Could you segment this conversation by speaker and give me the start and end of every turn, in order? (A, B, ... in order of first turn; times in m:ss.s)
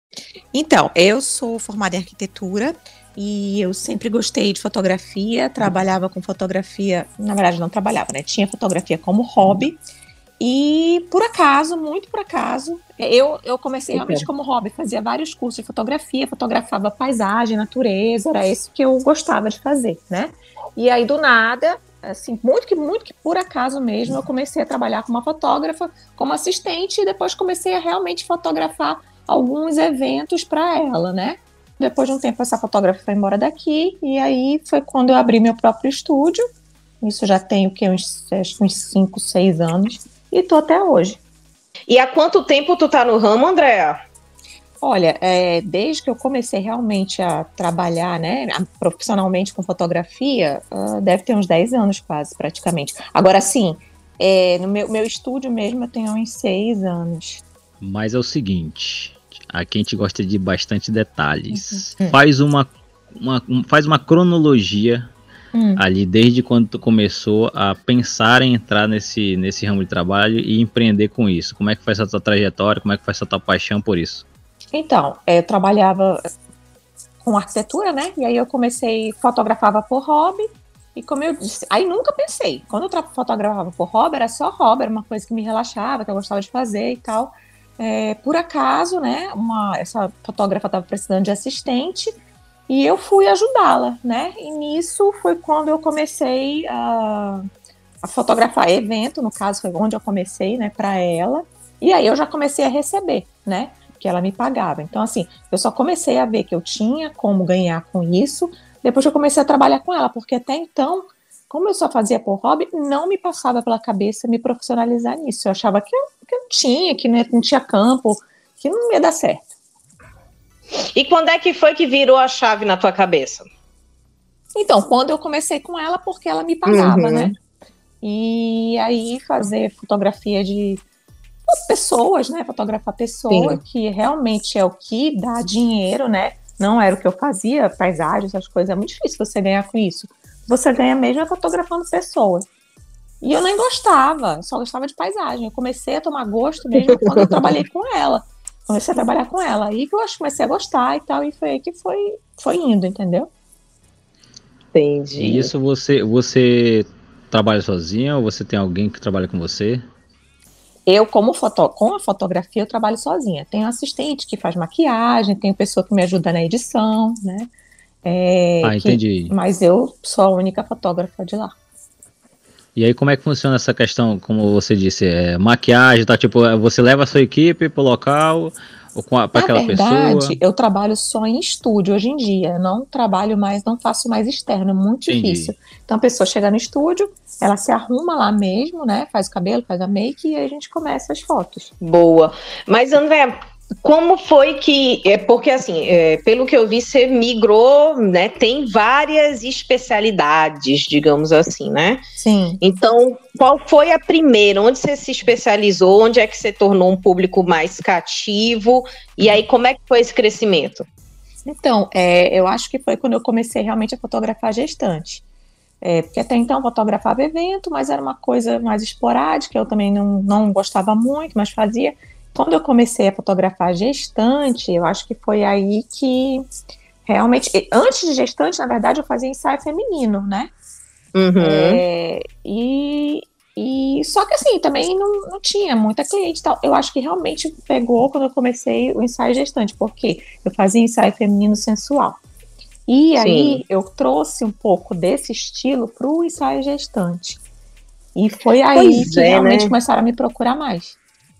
0:00.5-0:09.8 A
0:10.4-0:36.4 A
0:13.9-0:14.2 B
0:37.0-0:41.2 A
0:41.9-0:44.0 B
0:44.8-0:57.4 A
0:57.8-1:05.1 C
1:01.5-1:02.2 A
1:05.5-1:05.8 A
1:05.8-1:14.2 C
1:14.7-1:16.3 A
1:17.2-1:32.1 A
1:32.7-1:37.4 A
1:38.0-1:59.4 A
2:00.9-2:03.4 B
2:04.5-2:07.3 A
2:06.7-2:07.3 B
2:08.0-2:10.8 A
2:11.5-2:22.4 A
2:13.3-2:13.6 B
2:23.2-2:33.3 A
2:27.0-2:27.5 B
2:34.7-2:35.5 B
2:35.2-2:39.8 C
2:40.9-2:47.5 A
2:48.0-2:51.5 A
2:48.6-2:49.3 C
2:52.8-3:00.4 C
2:59.3-3:11.7 A
3:05.1-3:05.5 C
3:11.8-3:22.0 B
3:22.2-3:22.6 A
3:22.6-3:30.8 B
3:31.4-3:35.2 A
3:35.8-3:46.4 A
3:47.0-3:50.5 A
3:51.1-3:51.8 B
3:51.4-4:02.2 A
4:02.9-4:07.4 A
4:03.2-4:03.6 B
4:08.1-4:11.0 A
4:08.7-4:09.7 B